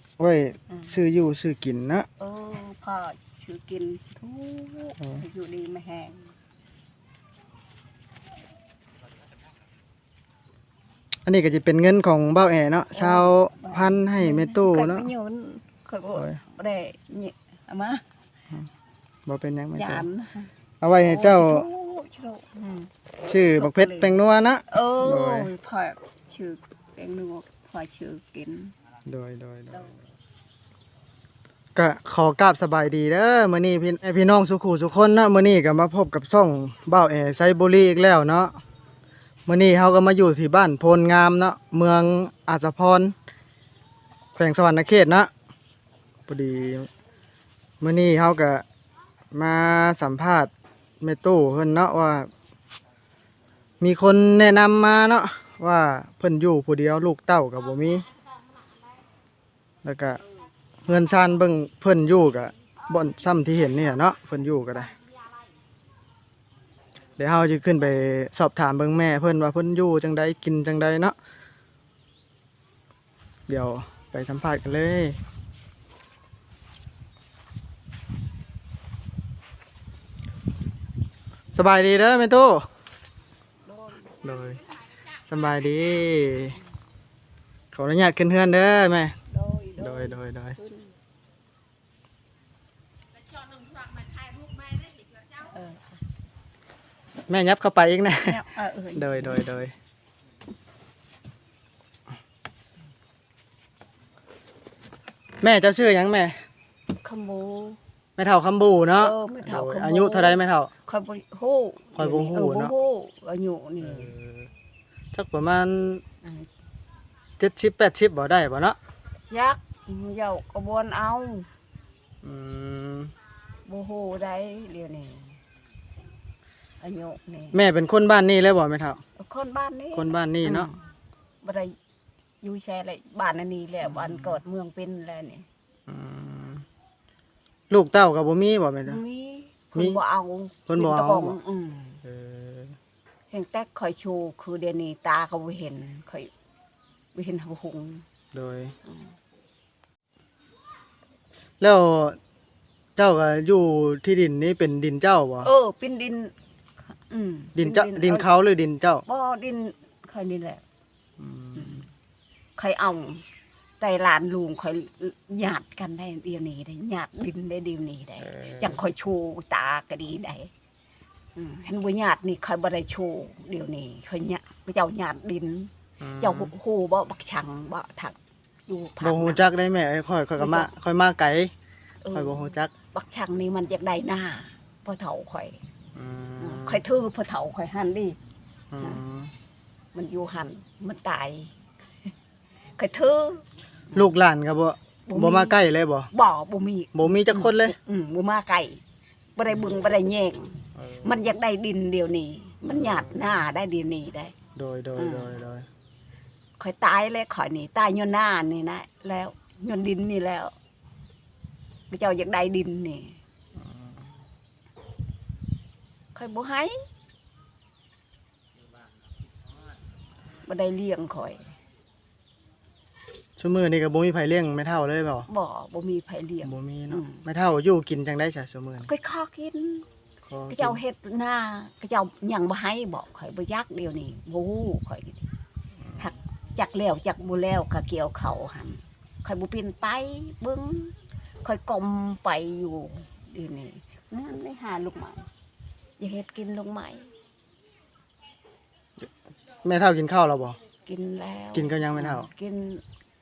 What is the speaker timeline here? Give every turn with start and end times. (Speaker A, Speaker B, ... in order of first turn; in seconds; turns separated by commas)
Speaker A: 0.2-2.1, Speaker B: 2.2-6.3, Speaker A: 11.3-15.1, Speaker B: 12.9-18.0, Speaker A: 16.1-16.4, Speaker A: 19.3-20.1, Speaker B: 19.8-22.9, Speaker A: 20.8-21.7, Speaker A: 23.3-25.5, Speaker B: 23.5-28.7, Speaker A: 29.1-29.9, Speaker B: 29.7-30.0, Speaker A: 31.8-38.6, Speaker A: 39.5-43.1, Speaker A: 44.4-45.3, Speaker A: 46.3-46.9, Speaker A: 47.8-48.6, Speaker A: 49.3-52.3, Speaker A: 53.8-58.1, Speaker A: 59.8-60.2, Speaker A: 60.9-64.9, Speaker A: 67.2-71.2, Speaker A: 73.5-75.2, Speaker A: 81.5-82.7, Speaker B: 83.7-84.1, Speaker A: 84.2-84.6, Speaker A: 85.2-86.6, Speaker A: 87.7-89.2, Speaker B: 89.3-90.9, Speaker A: 89.8-90.6, Speaker B: 95.2-96.0, Speaker A: 97.3-98.4, Speaker B: 98.2-99.3, Speaker A: 99.0-99.8, Speaker A: 105.4-106.4, Speaker B: 107.0-107.8, Speaker A: 108.2-110.7, Speaker B: 109.0-114.1, Speaker A: 112.0-112.7, Speaker A: 113.8-114.5, Speaker A: 115.1-116.0, Speaker B: 116.2-116.6, Speaker A: 117.4-118.8, Speaker B: 119.2-121.5, Speaker A: 122.2-123.1, Speaker B: 123.7-125.4, Speaker B: 126.8-127.6, Speaker A: 127.5-129.0, Speaker B: 129.2-130.8, Speaker A: 129.9-130.7, Speaker B: 131.4-131.8, Speaker B: 132.4-135.5, Speaker A: 133.8-134.4, Speaker A: 135.9-136.7, Speaker A: 137.7-139.0, Speaker B: 138.9-142.0, Speaker A: 139.8-140.0, Speaker A: 140.7-141.4, Speaker A: 142.1-142.8, Speaker B: 143.3-146.3, Speaker B: 147.1-148.1, Speaker A: 148.3-148.8, Speaker B: 148.9-149.1, Speaker A: 151.6-152.2, Speaker A: 153.0-155.5, Speaker B: 155.4-156.3, Speaker B: 156.9-158.3, Speaker A: 157.6-159.0, Speaker B: 159.1-160.6, Speaker A: 161.2-161.9, Speaker B: 161.6-161.8, Speaker B: 162.6-163.2, Speaker B: 163.8-170.5, Speaker A: 168.2-168.8, Speaker B: 171.4-178.2, Speaker A: 176.0-176.5, Speaker B: 178.7-179.5, Speaker A: 179.0-181.5, Speaker B: 180.4-180.7, Speaker B: 182.0-185.6, Speaker A: 182.1-182.7, Speaker A: 185.9-186.8, Speaker B: 186.4-188.2, Speaker A: 188.7-189.3, Speaker B: 189.9-191.6, Speaker B: 192.8-194.1, Speaker A: 193.9-196.1, Speaker B: 195.1-195.6, Speaker B: 196.1-198.8, Speaker A: 196.9-197.8, Speaker B: 199.4-204.3, Speaker A: 200.8-201.3, Speaker A: 202.7-203.2, Speaker A: 204.6-205.7, Speaker B: 205.0-205.4, Speaker B: 206.6-210.5, Speaker B: 211.9-213.2, Speaker A: 213.6-214.0, Speaker B: 216.2-216.8, Speaker B: 220.4-221.5, Speaker A: 223.4-225.3, Speaker B: 225.3-227.2, Speaker A: 226.4-228.9, Speaker B: 228.8-229.9, Speaker A: 230.3-230.8, Speaker B: 230.5-235.3, Speaker A: 235.8-236.1, Speaker B: 236.0-245.3, Speaker B: 246.0-247.1, Speaker A: 249.6-250.6, Speaker B: 250.8-252.8, Speaker A: 251.5-252.3